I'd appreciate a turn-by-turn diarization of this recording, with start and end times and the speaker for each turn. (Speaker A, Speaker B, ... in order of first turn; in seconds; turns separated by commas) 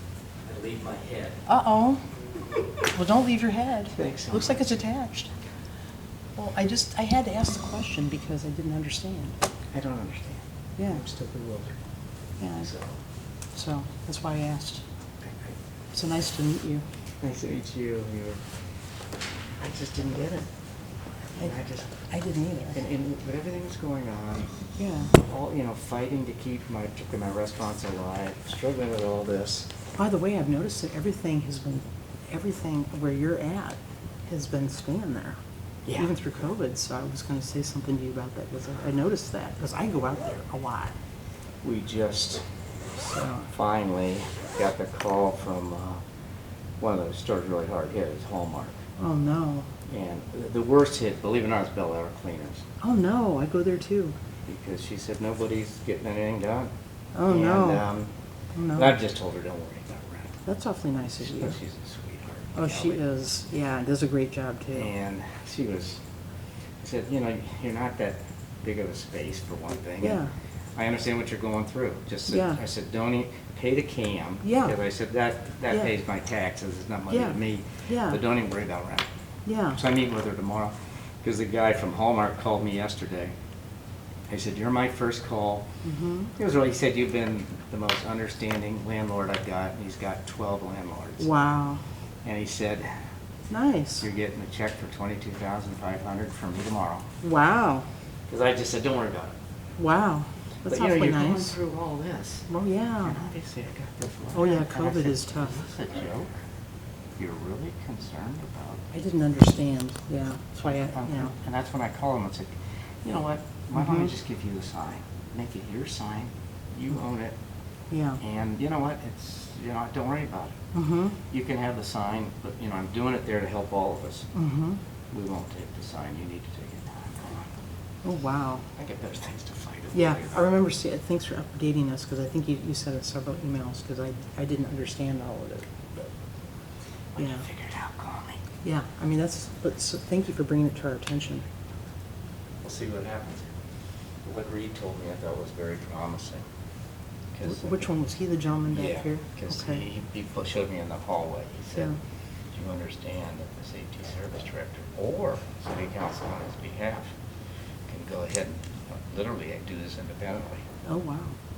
Speaker A: 0.4-1.4, Speaker B: 1.4-2.0, Speaker B: 2.9-5.3, Speaker A: 4.0-4.7, Speaker B: 6.4-9.3, Speaker A: 9.7-11.8, Speaker B: 10.8-11.0, Speaker B: 12.4-12.7, Speaker A: 12.6-12.9, Speaker B: 13.5-14.8, Speaker A: 15.2-15.6, Speaker B: 15.9-16.8, Speaker A: 17.2-18.4, Speaker A: 19.6-20.5, Speaker A: 21.3-21.9, Speaker B: 21.4-22.8, Speaker A: 22.7-24.5, Speaker B: 24.7-25.1, Speaker A: 25.1-29.7, Speaker B: 30.0-35.4, Speaker A: 35.9-36.1, Speaker B: 35.9-40.9, Speaker A: 41.6-42.4, Speaker B: 43.0-43.5, Speaker A: 43.5-46.0, Speaker A: 46.8-48.8, Speaker B: 49.0-49.7, Speaker A: 49.9-52.6, Speaker B: 52.8-54.1, Speaker A: 54.5-56.7, Speaker B: 57.1-57.8, Speaker A: 57.2-58.1, Speaker B: 58.5-59.0, Speaker A: 58.7-60.4, Speaker B: 60.5-61.5, Speaker A: 61.1-63.0, Speaker B: 62.5-64.9, Speaker A: 64.7-66.0, Speaker A: 66.8-70.2, Speaker B: 70.0-70.3, Speaker A: 70.8-79.1, Speaker B: 72.3-72.6, Speaker B: 74.4-74.7, Speaker B: 77.1-78.2, Speaker B: 79.5-79.8, Speaker A: 79.7-83.3, Speaker A: 84.3-85.6, Speaker B: 85.8-86.3, Speaker A: 86.3-91.3, Speaker B: 91.2-91.8, Speaker A: 92.2-93.0, Speaker B: 93.5-94.1, Speaker A: 94.0-97.0, Speaker B: 97.2-97.9, Speaker A: 98.3-99.3, Speaker B: 99.8-101.5, Speaker A: 100.7-102.5, Speaker B: 102.5-103.2, Speaker A: 103.0-106.3, Speaker B: 104.3-105.6, Speaker A: 107.2-108.8, Speaker B: 108.9-111.3, Speaker A: 110.6-117.3, Speaker B: 113.7-114.1, Speaker B: 117.9-118.2, Speaker A: 118.2-120.5, Speaker B: 120.7-121.2, Speaker A: 121.3-124.3, Speaker B: 124.3-124.8, Speaker A: 125.1-127.5, Speaker B: 128.0-128.7, Speaker A: 128.8-130.5, Speaker B: 129.9-135.7, Speaker A: 137.1-138.4, Speaker B: 137.2-137.4, Speaker B: 138.6-141.4, Speaker A: 142.6-143.5, Speaker A: 144.2-146.4, Speaker A: 147.3-147.8, Speaker B: 147.4-149.8, Speaker A: 148.7-151.9, Speaker A: 152.5-157.1, Speaker A: 157.9-160.6, Speaker B: 160.8-161.3